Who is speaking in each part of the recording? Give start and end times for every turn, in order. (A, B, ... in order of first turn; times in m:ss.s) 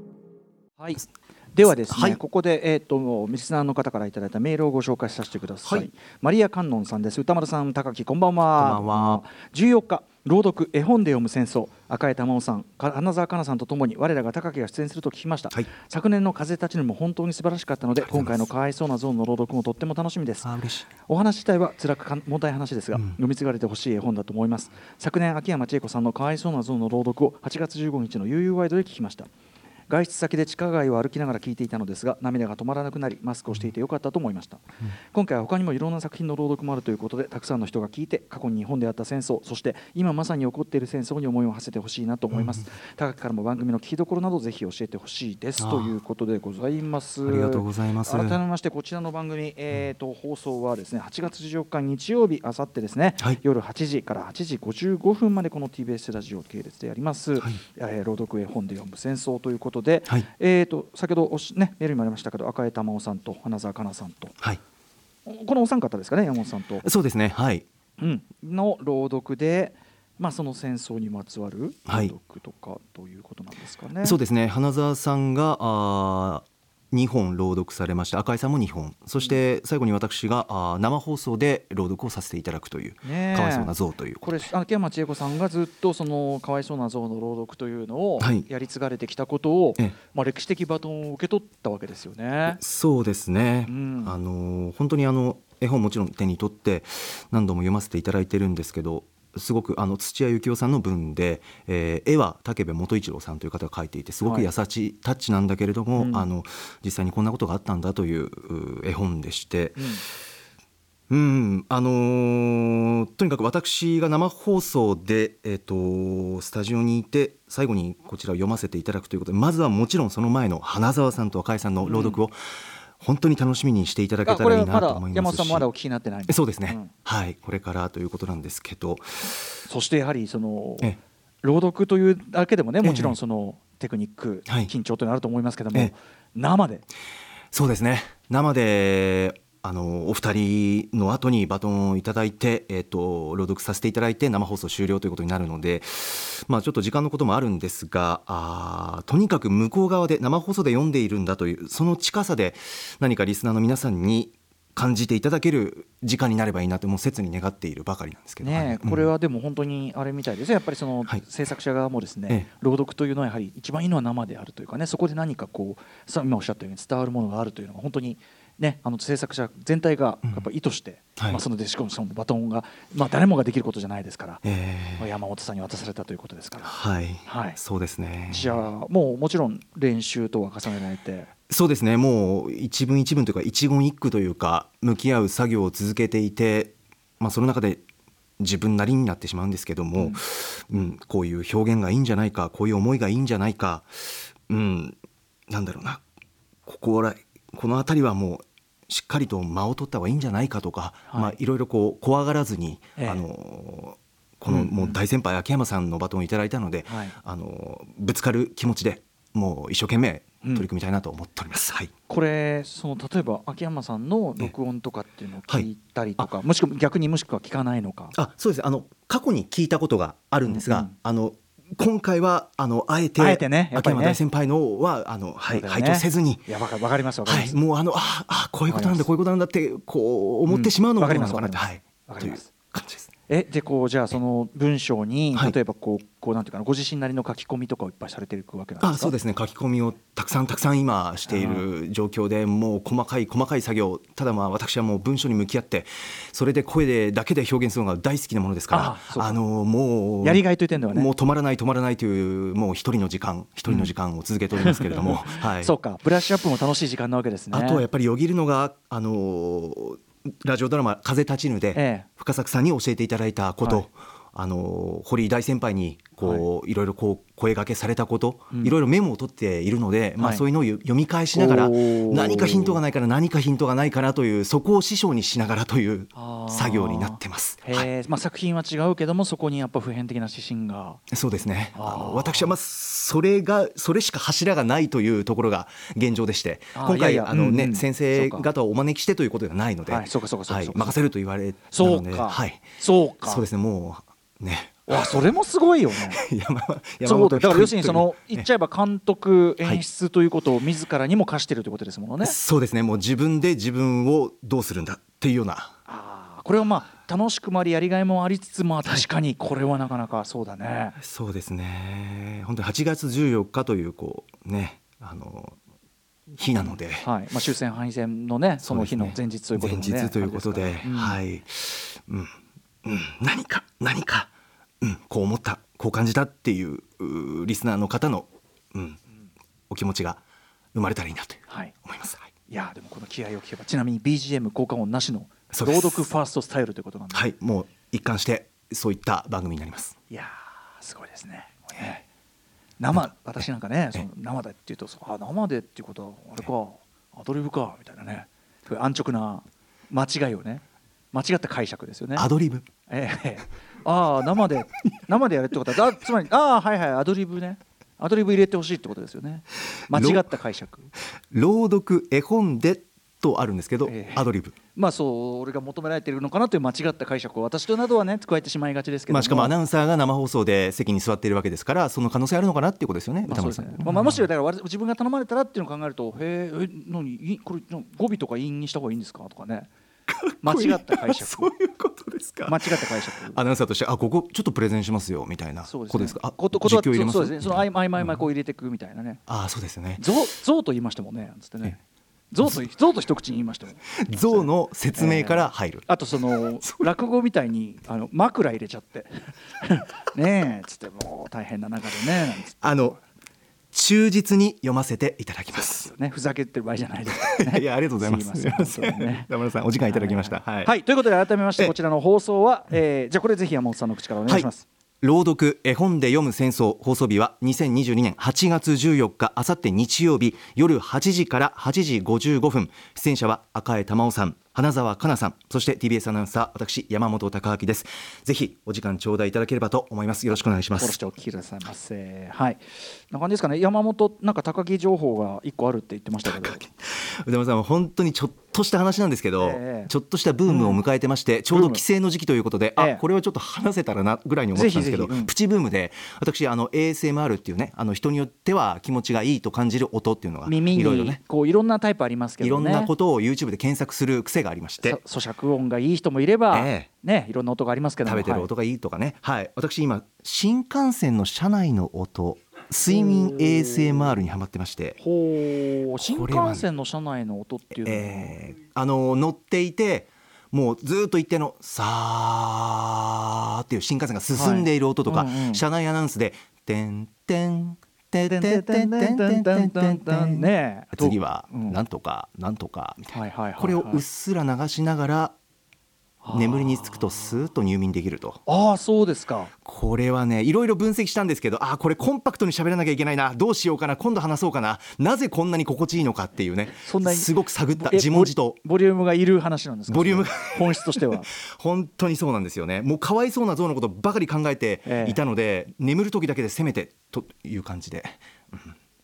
0:00.8-0:29.3 A
0:01.7-0:02.2 B
0:08.6-0:09.2 B
0:18.0-0:18.4 B
0:20.4-0:20.9 B
0:29.9-1:04.4 A
0:42.3-0:42.6 B
0:45.6-0:46.0 B
0:47.2-0:48.4 B
1:05.2-1:06.9 A
1:06.8-1:07.7 B
1:08.0-1:14.2 A
1:11.9-1:12.1 B
1:14.0-1:24.4 B
1:23.0-1:32.6 A
1:28.2-1:28.4 B
1:32.5-1:50.0 B
1:33.7-1:34.2 A
1:44.2-1:44.5 A
1:46.0-1:46.3 A
1:49.8-1:50.0 A
1:51.1-2:02.4 B
2:01.8-2:02.2 A
2:03.0-2:05.6 B
2:04.2-2:06.9 A
2:06.3-2:09.4 B
2:09.7-2:16.9 A
2:12.8-2:13.2 B
2:17.5-2:39.1 B
2:38.4-2:54.4 A
2:51.2-2:51.4 B
2:54.4-2:55.1 B
2:55.0-2:56.7 A
2:56.6-2:58.6 B
2:57.2-2:57.6 A
2:58.3-3:01.3 A
3:01.5-3:07.8 B
3:08.4-3:15.0 B
3:10.0-3:10.2 A
3:15.5-3:16.0 B
3:16.7-3:31.9 B
3:21.1-3:21.4 A
3:23.0-3:23.2 A
3:24.5-3:25.0 A
3:26.9-3:27.2 A
3:32.1-3:38.2 A
3:35.5-3:36.3 B
3:38.1-3:46.5 B
3:40.4-3:40.9 A
3:43.2-3:44.2 A
3:45.5-3:47.6 A
3:47.3-3:53.1 B
3:48.7-3:49.1 A
3:50.5-3:52.5 A
3:53.3-3:59.2 A
3:58.8-4:15.7 B
4:01.3-4:01.7 A
4:08.7-4:09.4 A
4:10.2-4:11.1 A
4:13.7-4:13.9 A
4:14.6-4:17.8 A
4:17.5-4:37.9 B
4:21.7-4:22.1 A
4:30.2-4:30.4 A
4:31.3-4:32.8 A
4:36.1-4:41.0 A
4:41.1-4:52.7 B
4:41.7-4:42.6 A
4:46.7-4:48.5 A
4:49.8-4:51.0 A
4:51.7-4:53.4 A
4:53.2-4:55.2 B
4:54.9-4:56.2 A
4:56.1-4:58.5 B
4:57.0-5:02.4 A
5:02.2-5:05.7 B
5:05.9-5:11.0 A
5:11.0-5:15.6 B
5:16.4-5:17.1 B
5:16.6-5:21.2 A
5:18.7-5:22.3 B
5:22.8-5:29.0 B
5:29.7-5:30.2 B
5:30.7-5:32.3 B
5:31.5-5:31.8 A
5:32.5-5:37.3 A
5:35.5-5:36.1 B
5:37.1-5:40.0 B
5:40.1-5:42.0 A
5:42.8-5:52.3 A
5:52.2-5:52.7 B
5:52.9-6:00.9 A
5:59.9-6:00.3 B
6:01.3-6:04.6 B
6:03.8-6:09.5 A
6:09.1-6:14.3 B
6:13.2-6:19.7 A
6:20.1-6:28.2 B
6:20.4-6:21.5 A
6:22.5-6:23.4 A
6:25.6-6:29.2 A
6:29.3-6:30.1 B
6:30.0-6:31.8 A
6:32.3-6:42.6 A
6:34.0-6:35.9 B
6:36.6-6:36.9 B
6:42.6-6:43.0 B
6:43.7-6:45.9 B
6:45.6-6:49.3 A
6:47.2-6:50.7 B
6:49.8-6:54.6 A
6:55.0-7:11.0 B
7:10.8-7:16.6 A
7:16.2-7:31.2 B
7:19.4-7:19.9 A
7:20.5-7:20.8 A
7:21.5-7:21.8 A
7:22.8-7:23.0 A
7:24.5-7:25.3 A
7:30.5-7:32.9 A
7:32.4-7:35.0 B
7:34.8-7:38.5 A
7:36.5-7:36.9 B
7:38.0-7:45.0 B
7:42.9-7:44.1 A
7:45.0-7:48.4 A
7:46.1-7:46.6 B
7:47.7-8:05.4 B
7:54.3-7:55.6 A
7:58.2-8:01.8 A
8:03.1-8:04.0 A
8:06.2-8:07.3 A
8:06.3-8:08.4 B
8:08.5-8:09.5 A
8:09.6-8:18.6 B
8:16.8-8:21.3 A
8:19.9-8:28.7 B
8:24.8-8:25.2 A